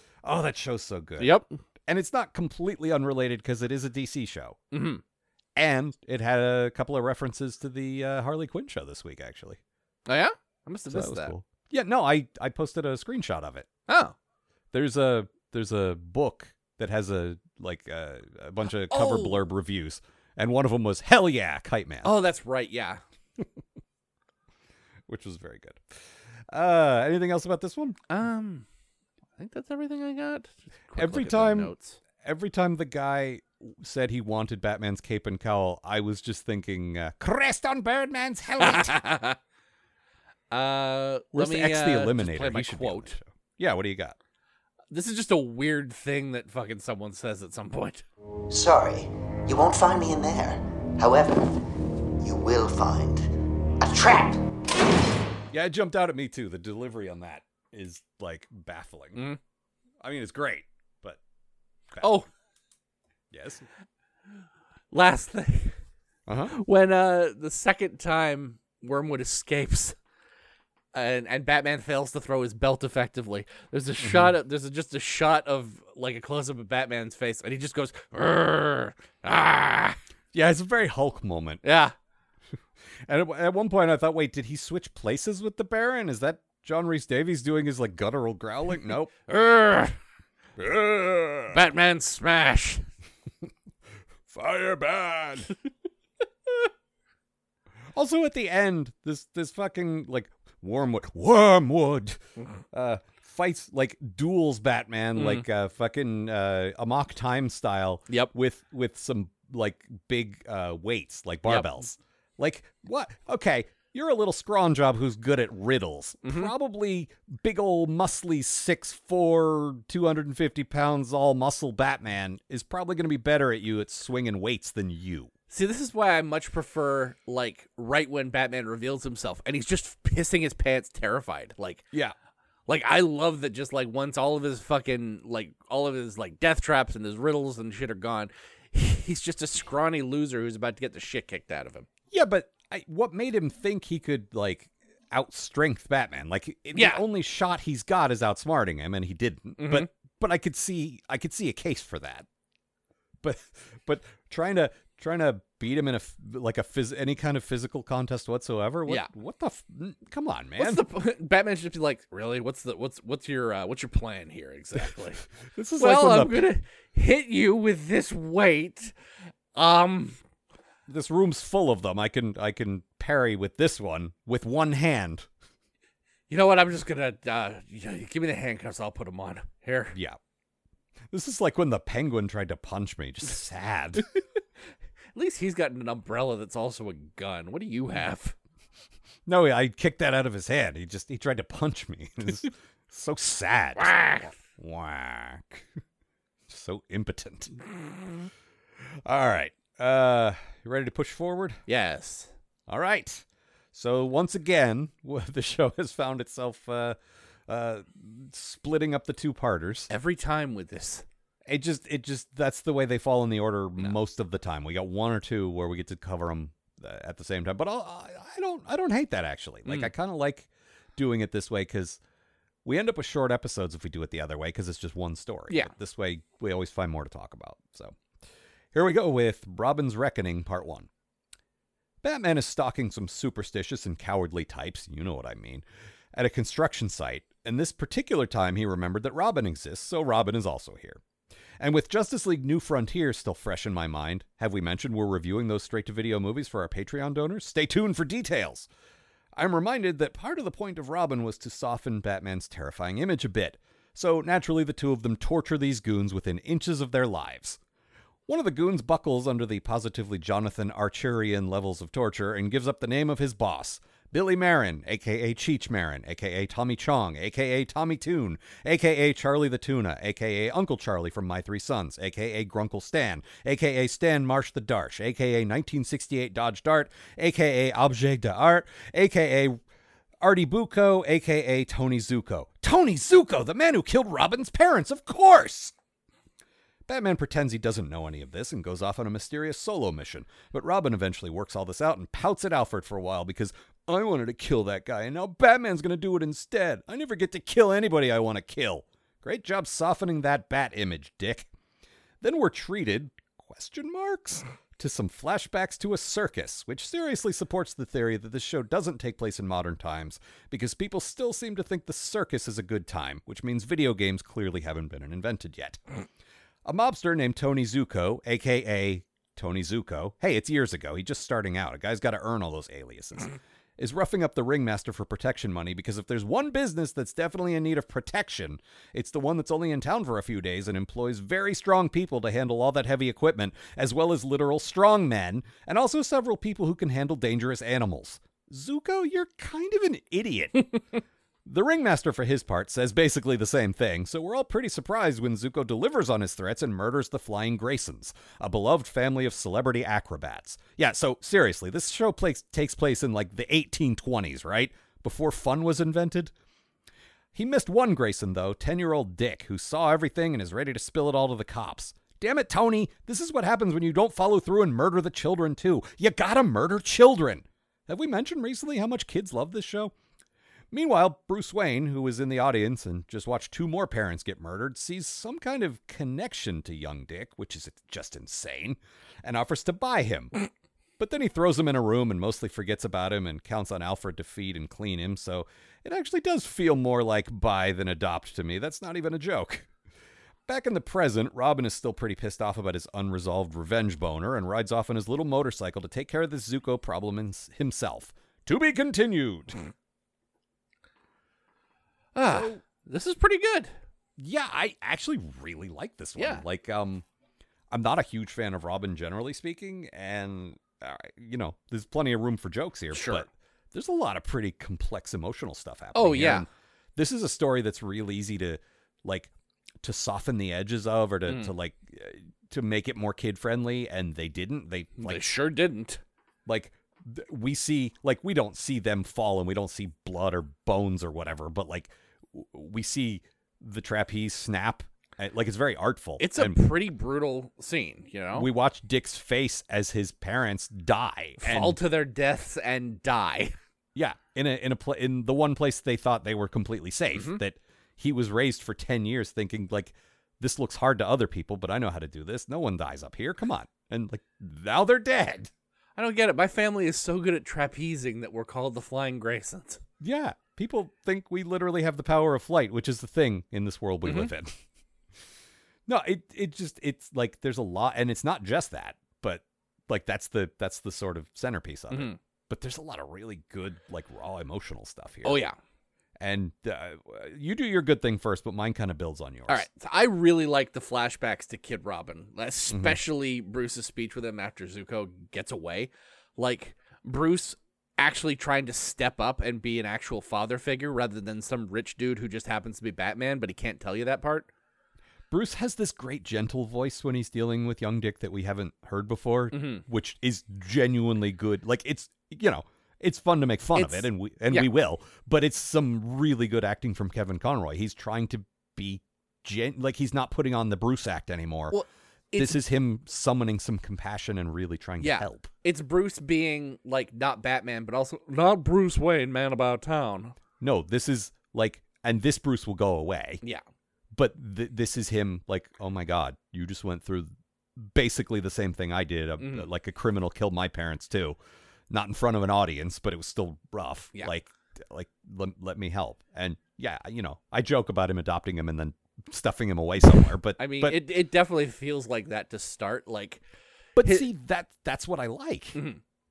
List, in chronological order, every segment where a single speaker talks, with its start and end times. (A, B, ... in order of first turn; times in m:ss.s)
0:00.2-0:04.6 A
0:01.2-0:01.5 B
0:04.7-0:05.0 B
0:05.6-0:09.6 A
0:10.1-0:11.3 B
0:10.9-0:13.7 A
0:13.9-0:14.1 B
0:14.7-0:22.1 A
0:18.9-0:19.4 B
0:22.0-0:23.0 B
0:25.1-0:28.0 A
0:28.1-0:28.6 B
0:29.4-0:32.0 B
0:31.0-0:39.0 A
0:38.6-0:39.4 B
0:40.5-0:43.2 B
0:41.3-0:44.2 A
0:44.9-0:48.0 B
0:48.5-0:51.6 C
0:52.2-0:53.3 C
0:53.8-0:54.4 C
0:55.5-0:59.2 A
1:00.0-1:01.2 A
1:02.0-1:02.3 B
1:03.3-1:03.6 A
1:04.9-1:05.8 B
1:06.3-1:06.6 A
1:06.5-1:10.0 B
1:10.9-1:20.0 B
1:14.0-1:14.3 A
1:20.3-1:21.6 A
1:21.6-1:21.9 B
1:23.0-1:29.1 A
1:29.3-1:30.0 B
1:30.6-1:31.6 A
1:31.5-1:32.8 B
1:34.3-1:35.5 A
1:37.9-1:42.2 A
1:42.7-2:05.3 A
1:45.1-1:45.4 B
1:56.2-1:56.5 B
2:05.5-2:11.8 B
2:12.7-2:21.8 B
2:22.1-2:32.3 A
2:26.7-2:27.0 B
2:29.6-2:29.9 B
2:33.2-2:40.8 A
2:40.6-2:45.2 B
2:45.5-2:46.4 A
2:45.8-2:48.9 B
2:49.5-2:50.2 B
2:50.9-2:55.3 A
2:56.3-3:00.0 B
2:59.9-3:00.2 A
3:01.1-3:04.1 A
3:05.1-3:08.3 B
3:09.2-3:15.7 A
3:13.8-3:14.3 B
3:16.5-3:17.5 A
3:19.0-3:21.6 A
3:21.7-3:22.3 B
3:22.7-3:29.9 A
3:29.9-3:31.0 B
3:31.4-3:42.0 A
3:39.6-3:39.9 B
3:42.6-3:48.0 A
3:48.7-3:50.9 A
3:52.0-4:01.0 A
4:01.6-4:08.7 A
4:09.3-4:17.6 A
4:18.3-4:39.6 A
4:40.2-4:45.7 A
4:46.9-5:01.5 A
5:02.2-5:15.8 A
5:16.6-5:40.8 A
5:41.4-5:56.3 A
5:57.3-6:09.9 A
6:10.7-6:20.3 A
6:21.0-6:29.7 A
6:30.5-6:39.6 A
6:42.1-6:43.7 B
6:42.3-6:42.6 A
6:44.2-6:47.0 A
6:46.2-6:46.4 B
6:47.7-6:59.3 A
6:52.9-6:53.2 B
6:55.9-6:56.5 B
6:59.8-7:05.4 A
7:01.2-7:01.5 B
7:05.0-7:06.0 B
7:06.4-7:16.6 A
7:16.2-7:18.5 B
7:18.3-7:21.8 A
7:21.4-7:23.5 B
7:23.9-7:35.5 A
7:27.1-7:27.4 B
7:36.0-7:39.8 B
7:40.0-7:44.6 A
7:44.0-7:44.3 B
7:45.9-7:55.4 A
7:51.9-7:52.2 B
7:55.2-7:55.6 B
7:56.2-7:59.6 A
7:59.5-8:14.5 B
8:02.7-8:03.0 A
8:15.3-8:31.8 A
8:19.5-8:19.8 B
8:23.7-8:24.7 B
8:31.7-8:32.6 B
8:32.4-8:35.5 A
8:35.0-8:40.3 B
8:40.6-8:43.4 A
8:44.1-8:51.4 A
8:49.4-8:49.6 B
8:51.9-9:01.0 A
9:00.6-9:03.4 B
9:04.0-9:05.8 A
9:05.7-9:06.0 B